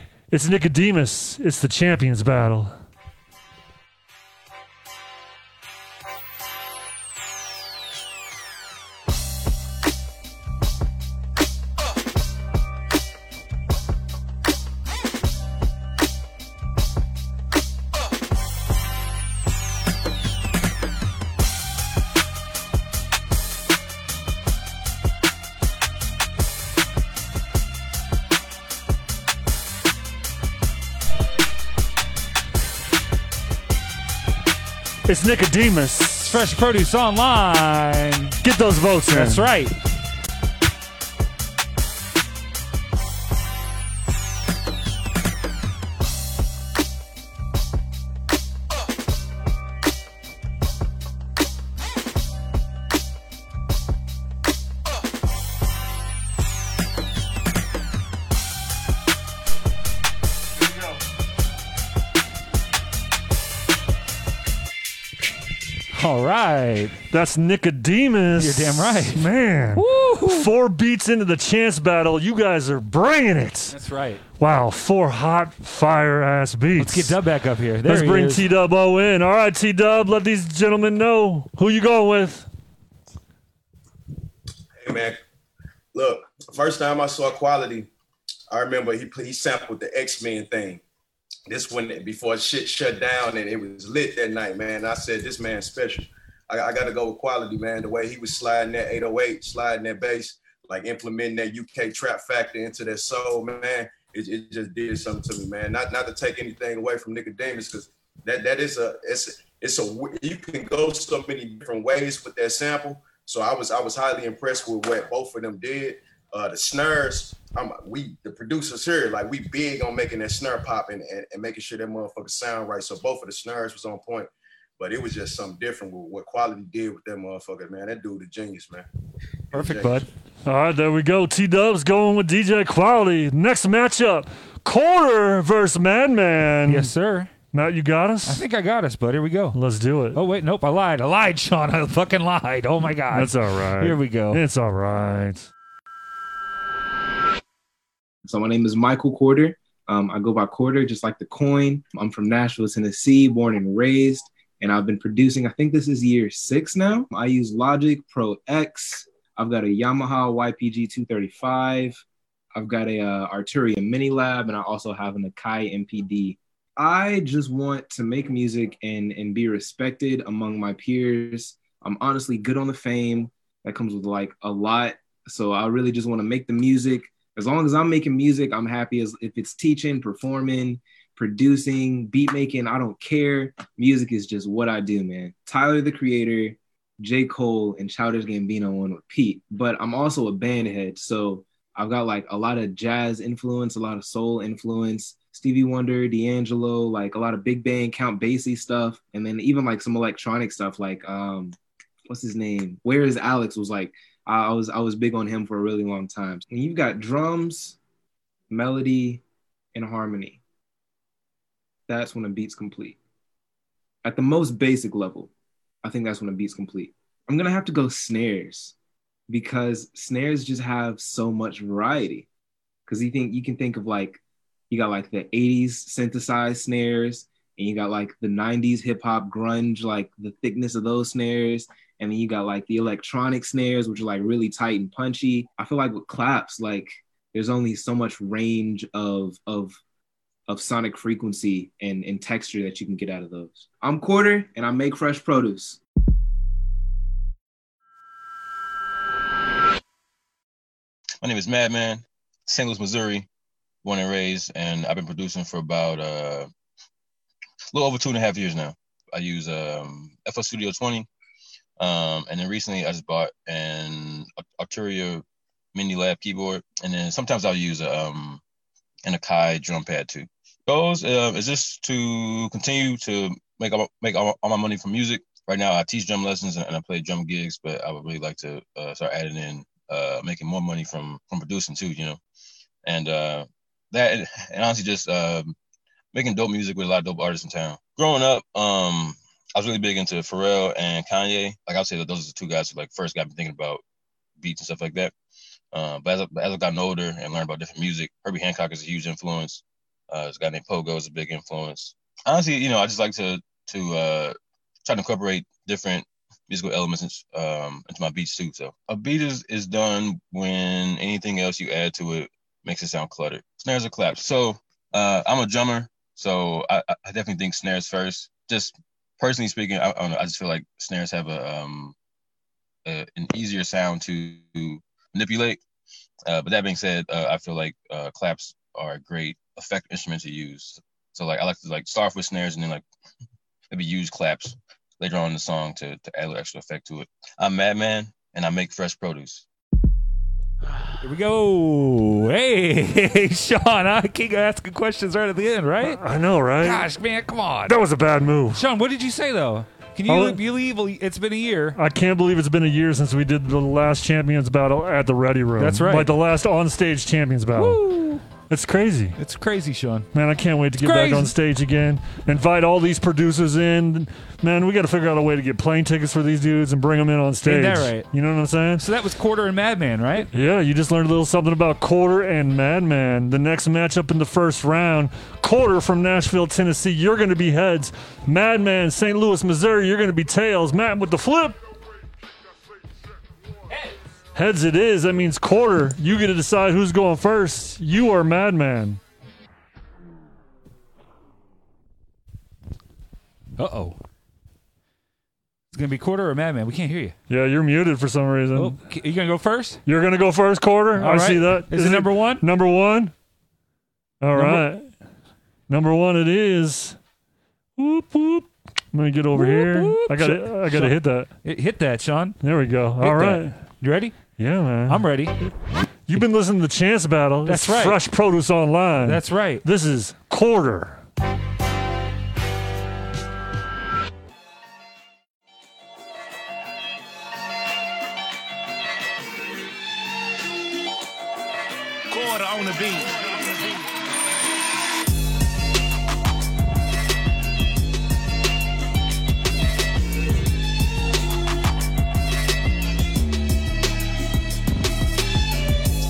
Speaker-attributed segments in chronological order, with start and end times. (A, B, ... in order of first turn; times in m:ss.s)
0:00.3-0:02.8 A
0:35.1-0:36.3 A
0:36.2-0:38.4 B
0:38.4-0:39.5 A
0:39.1-0:39.8 B
1:06.0-1:07.0 B
1:07.1-1:13.7 A
1:08.4-1:10.5 B
1:13.7-1:14.2 B
1:14.4-1:17.2 A
1:16.8-1:18.5 B
1:17.9-1:22.5 A
1:24.8-1:25.2 C
1:25.9-1:27.9 C
1:28.5-1:30.8 C
1:31.5-2:08.9 C
2:09.5-2:10.0 C
2:09.5-2:10.1 B
2:10.4-2:16.9 A
2:16.7-2:17.3 B
2:17.5-2:18.4 A
2:18.3-2:19.6 B
2:19.5-2:20.2 A
2:20.1-2:24.4 B
2:23.1-2:25.5 A
2:28.2-2:42.0 D
2:42.6-3:21.6 D
3:22.1-3:27.8 D
3:28.5-3:29.2 D
3:29.8-3:30.4 D
3:31.9-3:33.0 D
3:34.0-3:35.3 D
3:35.8-3:38.7 D
3:39.3-3:42.3 D
3:42.9-3:59.8 D
4:00.5-4:05.8 D
4:11.2-4:13.3 E
4:13.8-4:16.5 E
4:17.7-4:21.1 E
4:21.8-4:28.4 E
4:29.1-4:42.2 E
4:42.8-4:45.6 E
4:46.1-4:53.8 E
4:54.4-4:55.1 E
4:55.7-5:22.0 E
5:22.9-5:25.6 E
5:26.3-5:32.8 E
5:33.7-5:39.4 E
5:41.0-5:46.0 B
5:45.8-5:46.8 A
5:46.6-5:47.8 B
5:47.7-5:48.6 A
5:48.5-5:51.8 B
5:50.1-5:50.4 A
5:51.8-5:57.8 A
5:55.6-5:56.1 B
5:57.5-5:58.3 B
5:58.4-5:59.2 A
5:59.2-6:00.1 B
6:00.1-6:08.8 A
6:00.8-6:01.4 B
6:07.4-6:08.1 B
6:08.8-6:10.3 B
6:10.3-6:21.6 A
6:24.4-6:29.0 A
6:33.6-6:34.0 B
6:35.7-6:37.2 B
6:37.3-6:38.8 A
6:38.5-6:39.8 B
6:39.9-6:43.1 A
6:41.0-6:42.5 B
6:44.2-6:44.9 A
6:44.4-6:44.6 B
6:45.7-6:47.0 A
6:47.8-6:51.3 A
6:49.3-6:52.4 B
6:52.4-6:53.6 A
6:53.0-6:54.2 B
6:54.4-6:55.0 A
6:54.9-6:55.4 B
6:56.1-7:01.0 A
6:57.5-6:58.0 B
6:59.0-6:59.6 B